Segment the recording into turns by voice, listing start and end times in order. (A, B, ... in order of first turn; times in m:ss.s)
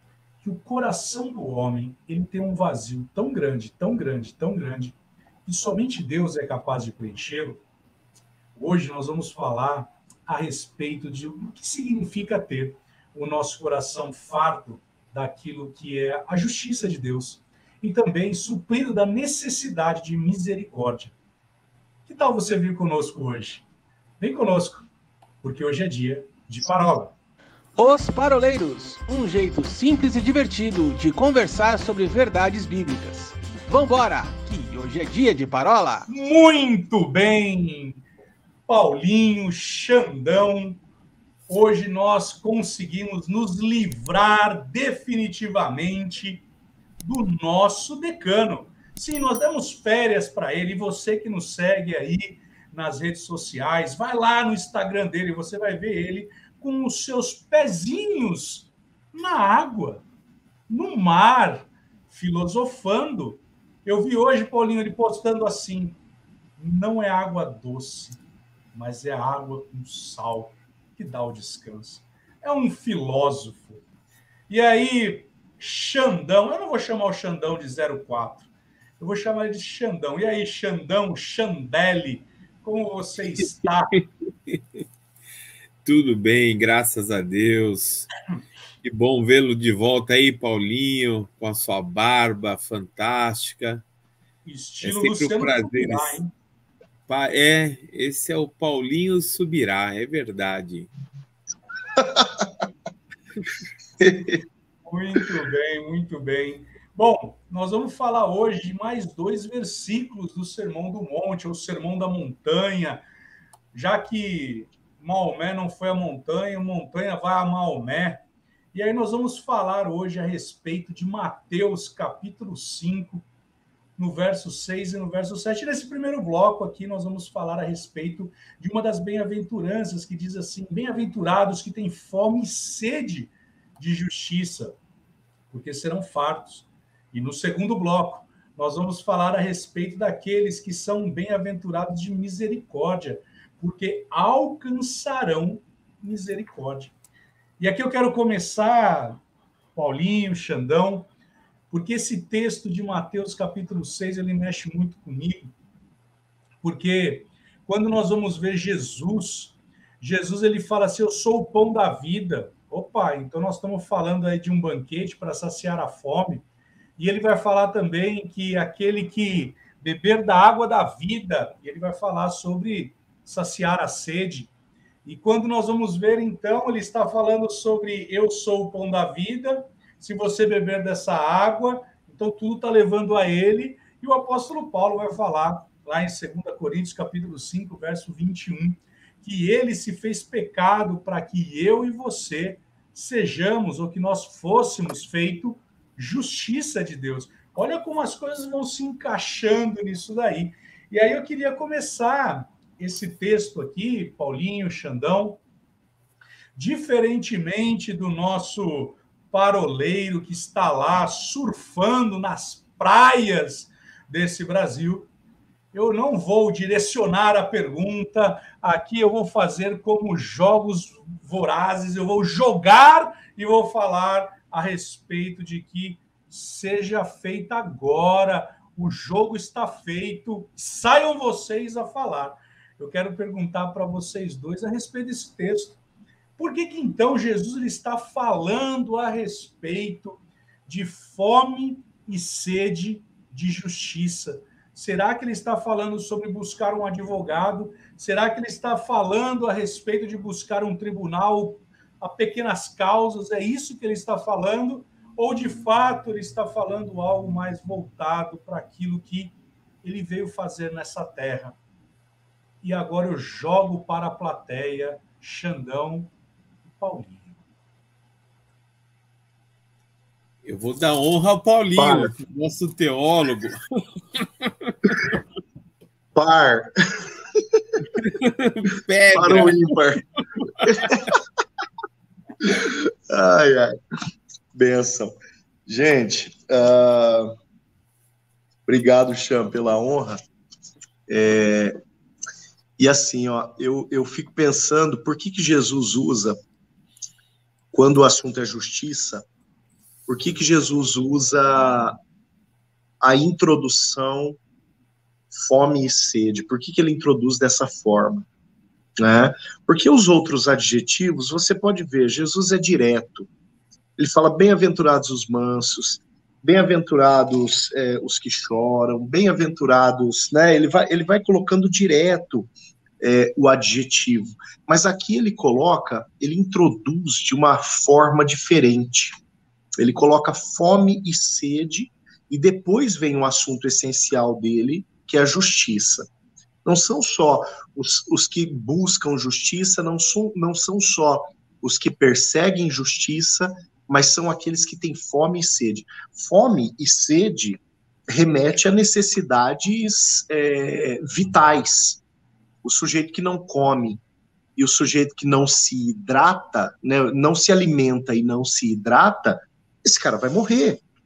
0:00.4-0:07.6 A
0:08.6-0:21.1 A
0:22.0-0:23.6 A
0:24.2-0:24.9 A
0:25.4-0:27.1 A
0:27.8-0:36.1 B
0:36.1-0:38.0 A
0:38.7-0:40.8 A
0:41.5-0:46.4 A
0:47.0-1:00.0 A
1:00.7-1:06.0 A
1:06.6-1:08.2 A
1:08.7-1:13.8 A
1:14.5-1:18.4 A
1:19.0-1:24.0 A
1:23.9-1:24.6 C
1:25.8-1:28.1 C
1:28.8-1:33.8 C
1:34.4-1:36.3 A
1:34.8-1:36.2 C
1:37.1-1:40.9 C
1:42.0-1:42.5 D
1:44.0-1:44.4 D
1:44.9-1:53.0 A
1:53.7-1:58.2 A
1:58.7-2:03.2 A
2:04.0-2:14.8 A
2:15.5-2:26.9 A
2:27.6-2:29.2 A
2:29.7-2:31.1 A
2:31.7-2:35.5 A
2:36.6-2:46.4 A
2:47.0-2:54.5 A
2:55.0-3:25.4 A
3:26.5-3:35.1 A
3:35.7-3:55.8 A
3:56.4-4:21.6 A
4:22.6-4:26.1 A
4:26.7-4:27.4 A
4:30.4-4:33.6 C
4:31.8-4:32.1 D
4:34.2-4:35.2 C
4:36.2-4:37.6 D
4:38.0-4:39.8 C
4:39.1-4:40.0 D
4:40.4-4:41.1 C
4:40.6-4:41.2 D
4:42.4-4:43.7 D
4:44.5-4:45.1 D
4:45.7-4:47.3 D
4:48.7-4:50.2 D
4:51.1-4:51.7 D
4:52.8-4:56.4 D
4:57.7-4:59.2 D
5:00.1-5:02.0 D
5:03.0-5:04.4 D
5:05.3-5:08.3 D
5:09.0-5:13.3 D
5:14.0-5:29.2 D
5:29.8-5:36.1 D
5:36.6-5:47.6 D
5:48.1-5:52.0 D
5:52.6-5:54.0 D
5:54.6-6:00.8 D